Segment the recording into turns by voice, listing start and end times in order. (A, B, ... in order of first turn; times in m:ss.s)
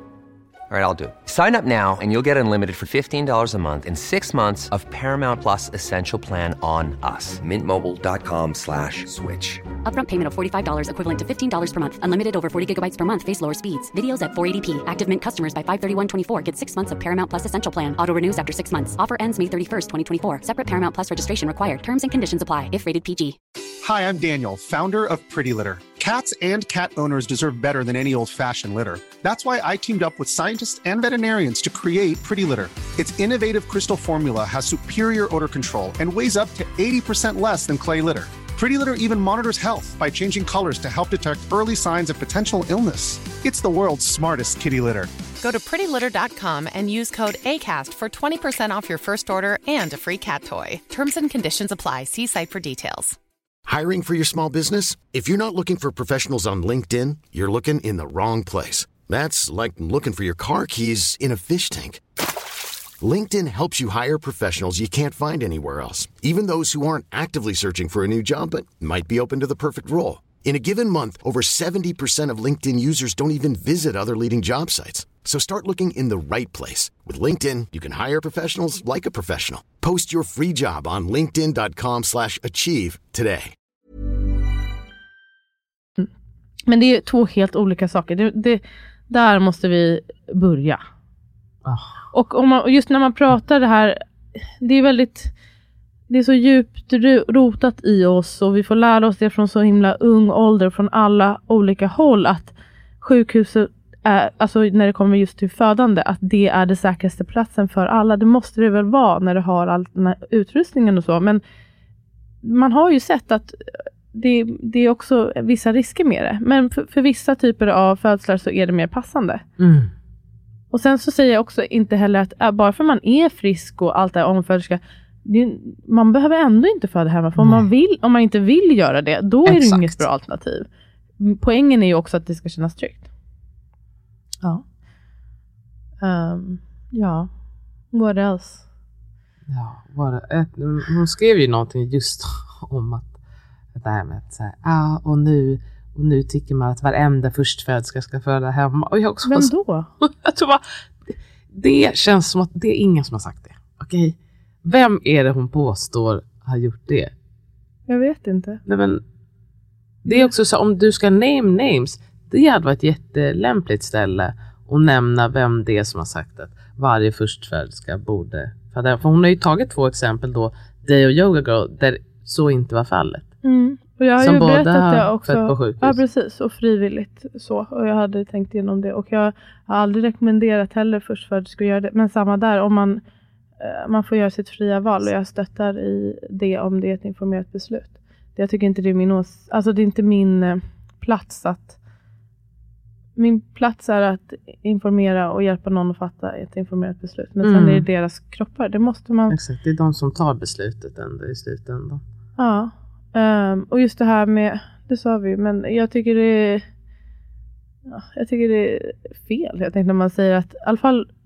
0:00.7-0:09.6 A
0:09.8-0:23.4 B
0:23.8-0:45.1 C
0:45.4-0:53.2 D
0:53.7-1:02.0 E
1:03.0-1:23.6 E
1:26.7-1:30.8 F
1:31.6-1:31.9 G
1:32.1-1:34.0 F
1:34.6-1:35.3 F
1:36.1-1:51.4 F
1:52.4-1:59.4 F
1:59.6-1:59.9 G
2:00.7-2:10.7 F
2:07.4-2:07.7 G
2:09.4-2:10.0 G
2:11.2-2:13.1 F
2:16.0-2:17.3 F
2:17.9-2:18.6 F
2:19.5-2:23.2 G
2:23.8-2:37.1 G
2:29.2-2:29.9 F
2:37.9-2:38.6 F
2:38.7-2:39.0 G
2:40.0-2:53.3 G
2:53.4-3:03.0 F
2:54.2-2:56.0 G
3:03.6-3:11.8 F
3:13.2-3:19.4 F
3:17.4-3:17.9 G
3:19.3-3:22.0 G
3:22.4-3:26.6 F
3:27.9-3:31.1 F